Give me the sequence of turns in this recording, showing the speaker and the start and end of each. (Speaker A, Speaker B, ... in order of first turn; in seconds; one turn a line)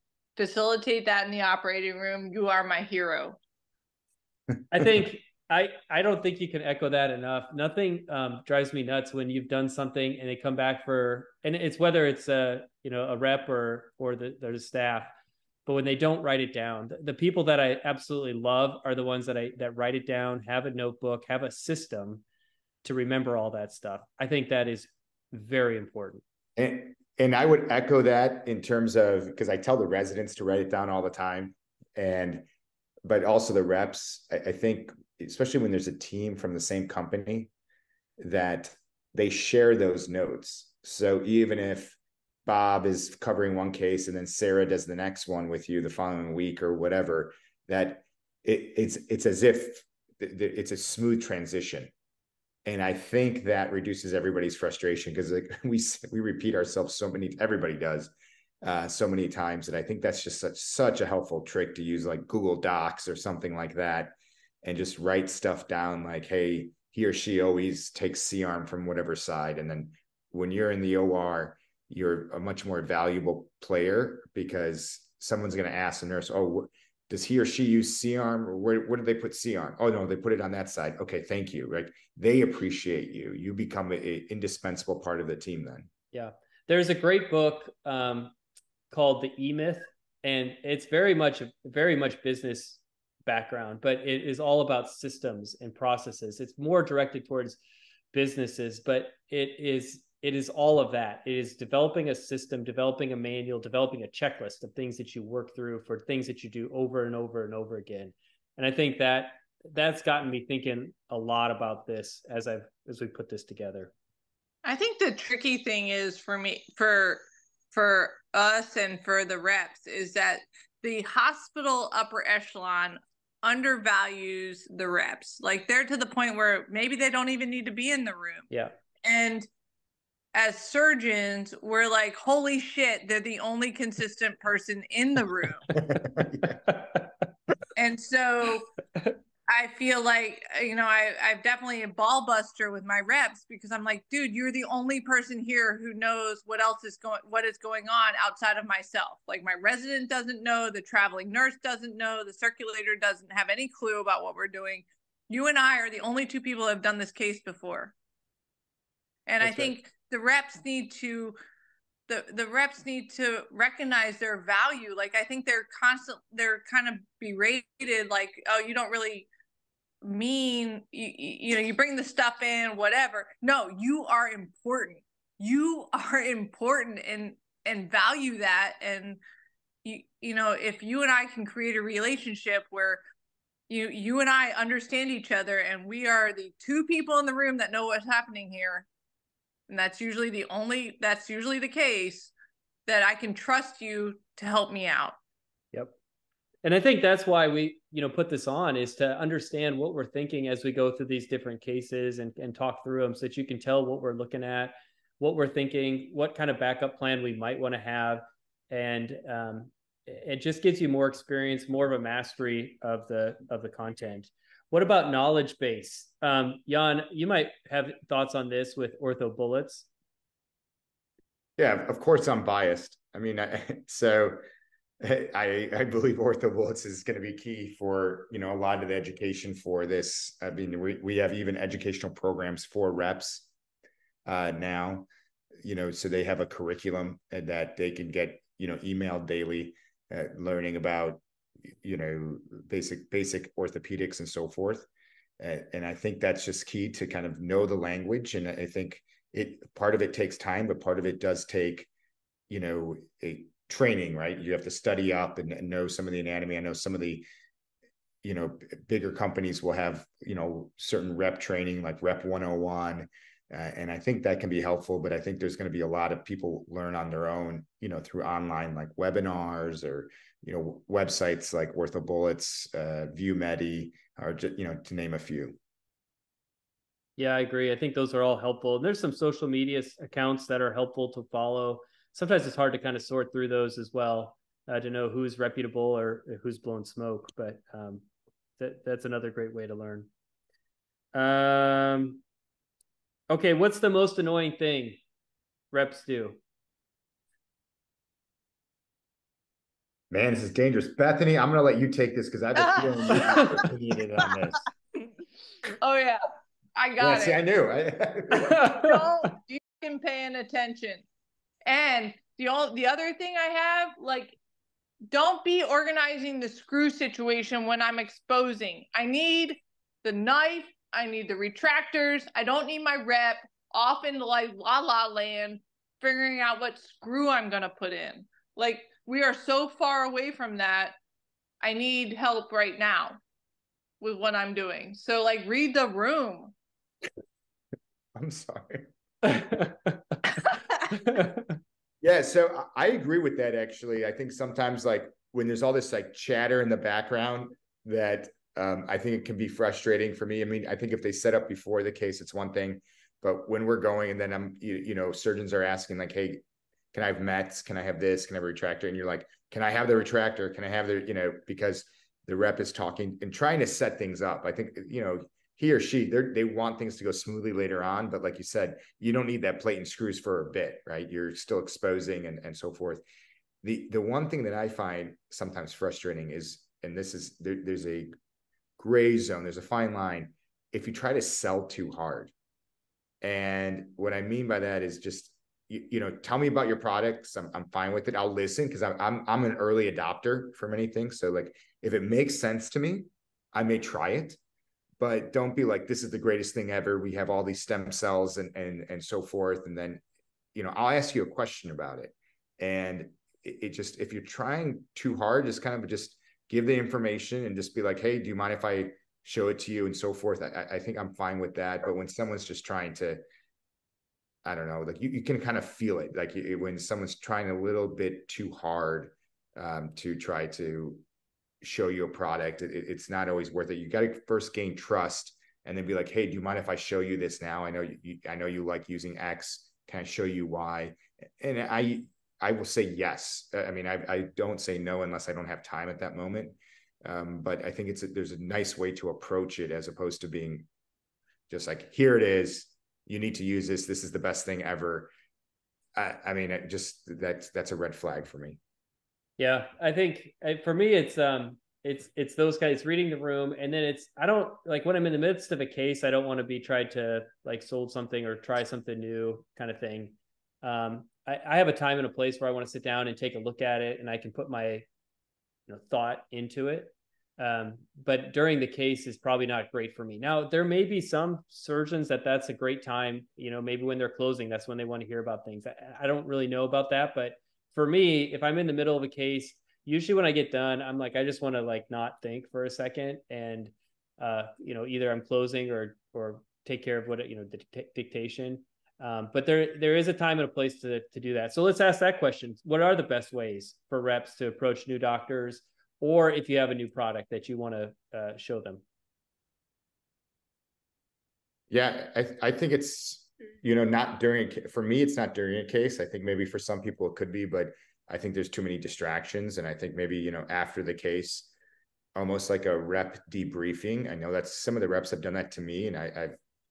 Speaker A: 0.3-3.4
Speaker B: 4.7-15.1
Speaker B: 15.7-22.2
Speaker B: 22.8-26.2
Speaker C: 26.6-32.4
Speaker C: 33.0-37.5
Speaker C: 38.2-51.9
Speaker C: 52.6-58.1
Speaker C: 58.6-85.9
Speaker B: 86.1-88.3
Speaker B: 88.9-97.6
Speaker B: 98.1-113.9
Speaker A: 114.6-128.5
Speaker B: 128.5-128.7
Speaker A: 129.0-129.5
Speaker A: 130.3-135.7
Speaker C: 135.7-136.6
Speaker B: 136.7-137.0
Speaker A: 137.8-138.7
Speaker A: 139.5-157.9
Speaker A: 159.3-161.4
Speaker B: 159.4-159.7
Speaker A: 162.1-169.3
Speaker A: 170.0-179.2
Speaker A: 179.8-183.0
Speaker A: 183.7-188.8
Speaker A: 189.7-192.3
Speaker A: 192.9-195.2
Speaker B: 196.6-219.9
Speaker C: 221.6-224.4
Speaker C: 225.0-233.5
Speaker C: 234.2-235.1
Speaker C: 235.6-241.2
Speaker C: 241.8-244.9
Speaker C: 245.4-251.9
Speaker C: 252.5-257.2
Speaker C: 258.2-275.6
Speaker B: 277.2-288.0
Speaker B: 288.6-290.1
Speaker B: 291.1-292.2
Speaker B: 293.3-295.0
Speaker B: 295.7-296.4
Speaker C: 300.1-304.6
Speaker A: 302.6-303.7
Speaker B: 303.1-303.6
Speaker A: 305.8-306.2
Speaker A: 306.8-307.4
Speaker C: 307.0-308.9
Speaker B: 308.3-309.0
Speaker A: 308.6-311.0
Speaker A: 311.6-314.4
Speaker A: 315.1-330.9
Speaker A: 331.6-333.2
Speaker A: 334.0-336.5
Speaker C: 338.1-338.9
Speaker B: 339.2-340.2
Speaker B: 340.9-341.5
Speaker C: 342.0-373.0
Speaker C: 373.6-378.1
Speaker C: 378.8-382.3
Speaker C: 383.2-394.4
Speaker C: 395.0-400.0
Speaker C: 400.5-413.2
Speaker C: 414.4-421.0
Speaker C: 421.6-440.7
Speaker C: 441.5-445.1
Speaker C: 445.9-448.6
Speaker B: 449.4-464.9
Speaker B: 465.7-498.8
Speaker C: 501.7-511.5
Speaker C: 512.1-516.4